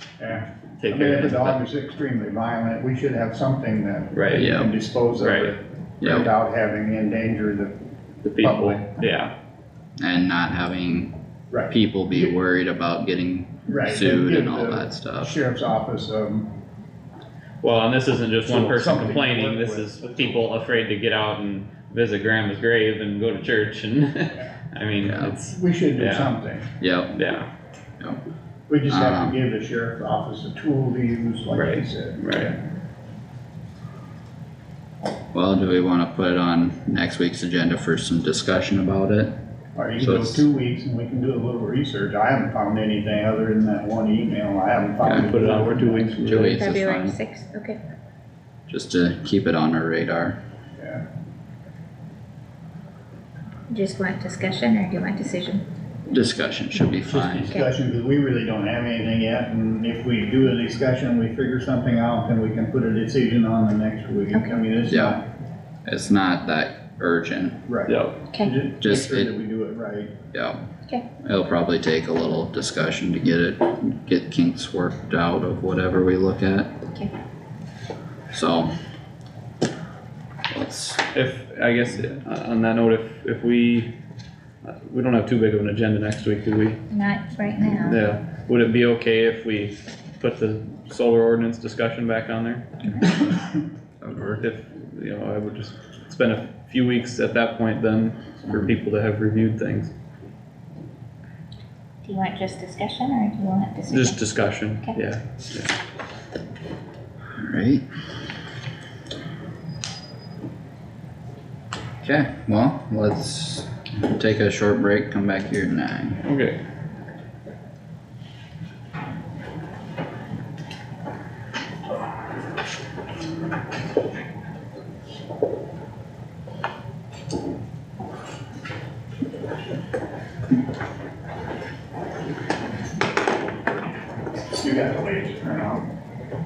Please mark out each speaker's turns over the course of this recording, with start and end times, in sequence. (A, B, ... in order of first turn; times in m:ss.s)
0:00.2-0:07.8 A
0:00.8-0:01.6 B
0:04.1-0:04.5 B
0:04.3-0:04.7 C
0:05.2-0:05.6 B
0:06.0-0:06.3 C
0:08.2-0:09.3 B
0:08.4-0:08.8 A
0:10.0-0:11.1 C
0:11.5-0:12.3 A
0:11.7-0:15.4 C
0:13.7-0:16.5 A
0:17.6-0:26.3 B
0:18.4-0:20.4 A
0:25.0-0:25.4 C
0:25.4-0:26.7 A
0:26.8-0:27.2 C
0:27.2-0:27.5 B
0:28.7-0:32.6 A
0:28.9-0:29.4 C
0:31.5-0:32.6 B
0:35.3-0:39.3 C
0:39.8-0:46.5 A
0:40.0-0:40.4 C
0:45.2-0:46.6 B
0:46.2-0:47.2 C
0:46.6-0:47.8 D
0:48.7-0:50.4 C
0:50.8-0:51.0 A
0:53.7-0:55.6 D
0:56.1-0:57.6 C
0:57.0-1:05.2 A
1:04.9-1:05.2 C
1:05.9-1:07.6 C
1:07.7-1:10.1 A
1:07.9-1:08.2 B
1:08.8-1:09.3 C
1:10.3-1:10.6 C
1:11.2-1:16.8 C
1:18.3-1:18.7 C
1:20.5-1:21.1 C
1:21.1-1:23.9 B
1:24.6-1:26.8 B
1:26.9-1:28.0 D
1:27.8-1:33.0 B
1:33.0-1:33.3 C
1:34.0-1:34.4 C
1:34.4-1:39.9 B
1:42.0-1:44.2 D
1:43.9-1:45.7 B
1:47.4-1:47.8 C
1:52.0-1:56.2 C
1:56.2-1:56.6 B
2:14.5-2:15.9 A